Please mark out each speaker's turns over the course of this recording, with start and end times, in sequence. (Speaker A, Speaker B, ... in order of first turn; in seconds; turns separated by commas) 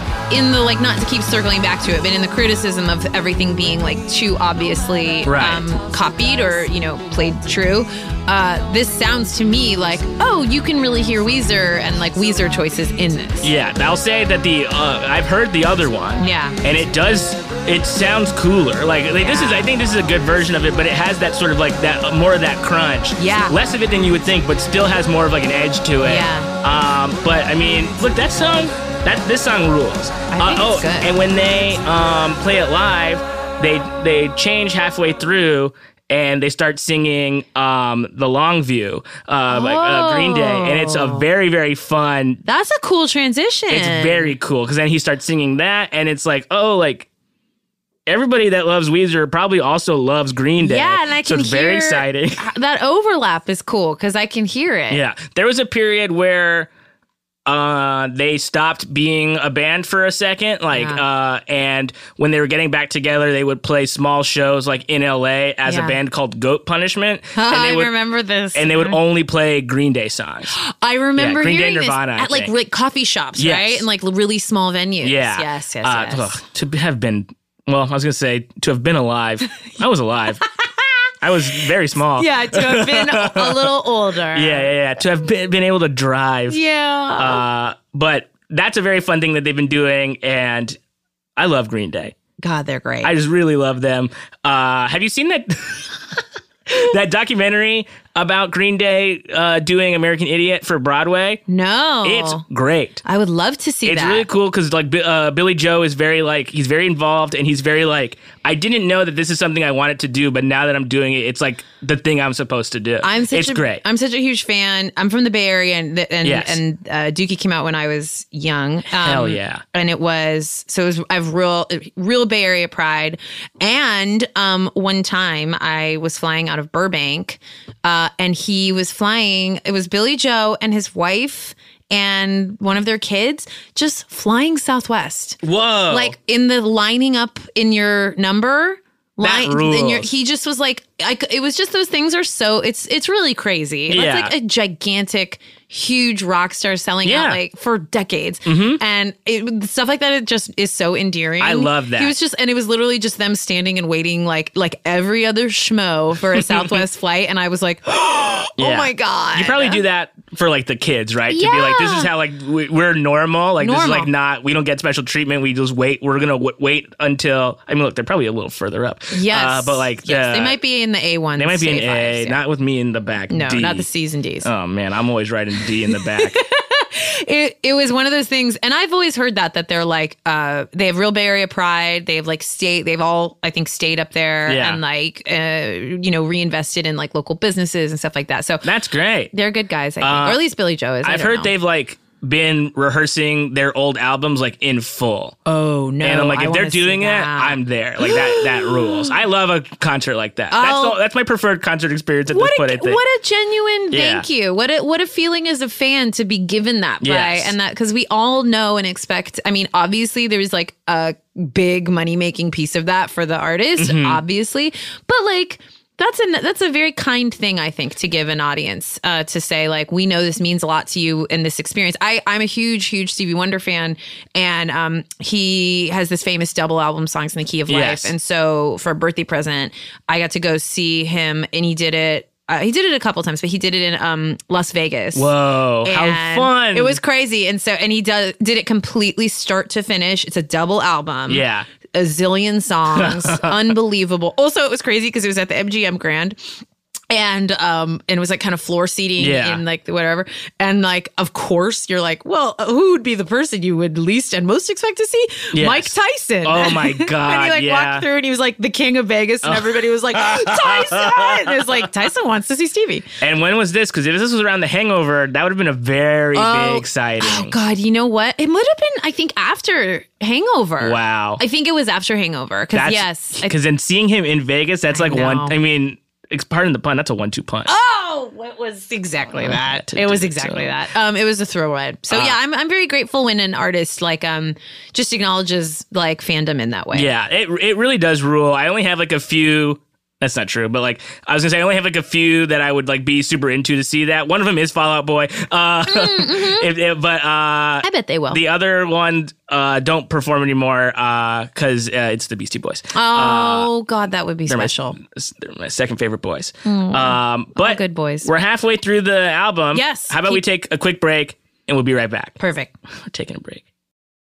Speaker A: 0.3-13.5, Speaker B: 5.2-5.7, Speaker B: 13.4-42.4, Speaker A: 16.2-16.6, Speaker A: 19.2-19.7, Speaker A: 23.2-23.6, Speaker A: 26.0-26.5, Speaker A: 30.3-31.1, Speaker A: 39.5-41.2, Speaker A: 42.4-44.4, Speaker B: 43.7-47.1, Speaker B: 48.1-52.4, Speaker A: 50.6-55.0, Speaker B: 54.9-56.7, Speaker B: 57.5-67.9, Speaker A: 60.7-61.0, Speaker A: 65.7-66.0, Speaker A: 67.3-69.0, Speaker B: 68.5-70.5, Speaker A: 70.5-76.4, Speaker B: 71.2-72.5, Speaker B: 73.4-73.8, Speaker B: 75.0-80.4, Speaker B: 81.2-83.8, Speaker A: 82.1-84.7, Speaker B: 84.3-86.6, Speaker A: 86.5-87.4, Speaker B: 87.2-90.8, Speaker B: 91.3-92.1, Speaker A: 92.4-93.1, Speaker B: 93.0-96.0, Speaker B: 96.7-101.4, Speaker A: 101.5-102.4, Speaker B: 102.0-103.0, Speaker A: 103.0-104.3, Speaker B: 103.8-113.8, Speaker A: 113.0-159.8, Speaker B: 116.2-116.6, Speaker B: 119.0-119.6, Speaker B: 135.4-136.1, Speaker B: 139.2-140.1, Speaker B: 143.9-144.3, Speaker B: 147.0-147.4, Speaker B: 148.4-148.8, Speaker B: 151.4-152.1, Speaker B: 156.3-156.8, Speaker B: 158.6-170.6, Speaker A: 161.3-162.1, Speaker A: 163.6-164.1, Speaker A: 169.1-172.4, Speaker B: 171.4-173.9, Speaker A: 173.3-174.5, Speaker B: 174.4-176.4, Speaker A: 175.8-188.7, Speaker B: 184.5-184.8, Speaker B: 188.6-189.3, Speaker A: 189.3-191.5, Speaker B: 190.0-190.4, Speaker B: 191.0-195.3, Speaker A: 195.4-199.1, Speaker B: 196.0-203.0, Speaker A: 200.5-201.0, Speaker A: 202.3-235.3, Speaker B: 203.9-204.2, Speaker B: 207.0-207.5, Speaker B: 213.8-214.2, Speaker B: 227.7-228.1, Speaker B: 235.1-237.0, Speaker A: 235.8-246.5, Speaker B: 241.3-241.7, Speaker B: 242.9-243.7, Speaker A: 247.1-263.1, Speaker B: 249.2-249.6, Speaker B: 255.5-258.1, Speaker B: 259.4-261.9, Speaker B: 263.2-267.5, Speaker A: 266.3-273.5, Speaker B: 270.8-271.4, Speaker B: 272.7-277.7, Speaker A: 274.9-275.6, Speaker A: 277.6-287.1, Speaker B: 279.3-280.8, Speaker B: 282.1-282.4, Speaker B: 286.9-303.7, Speaker A: 295.9-296.7, Speaker A: 297.8-298.4, Speaker A: 302.9-305.0, Speaker B: 304.5-312.4, Speaker A: 306.6-308.3, Speaker A: 309.7-310.4, Speaker A: 312.4-312.7, Speaker B: 312.9-313.6